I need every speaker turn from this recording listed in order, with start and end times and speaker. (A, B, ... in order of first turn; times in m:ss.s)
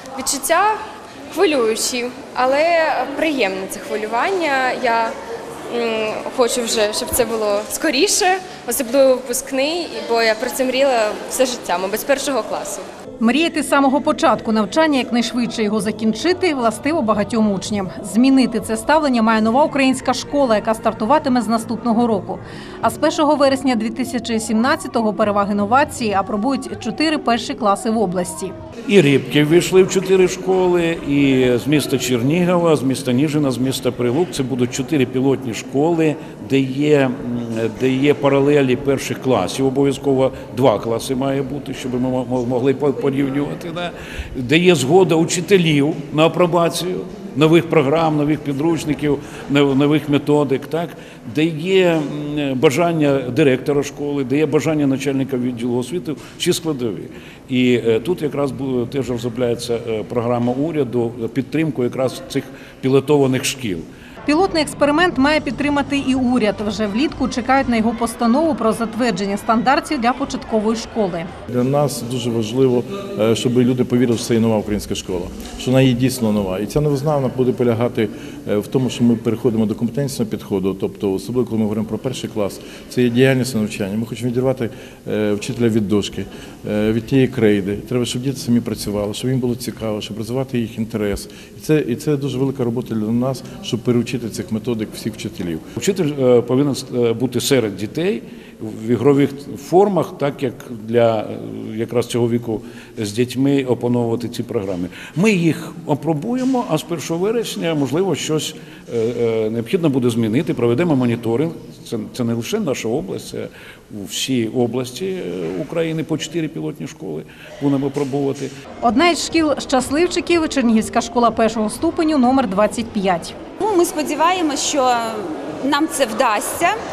0:00.2-0:05.2 A
0:05.7-0:12.9 A
0:13.2-0:28.5 B
0:28.9-1:03.9 C
1:04.2-1:11.3 B
1:11.5-1:35.6 D
1:35.8-1:58.5 C
1:58.8-2:03.4 B
2:03.6-2:06.8 E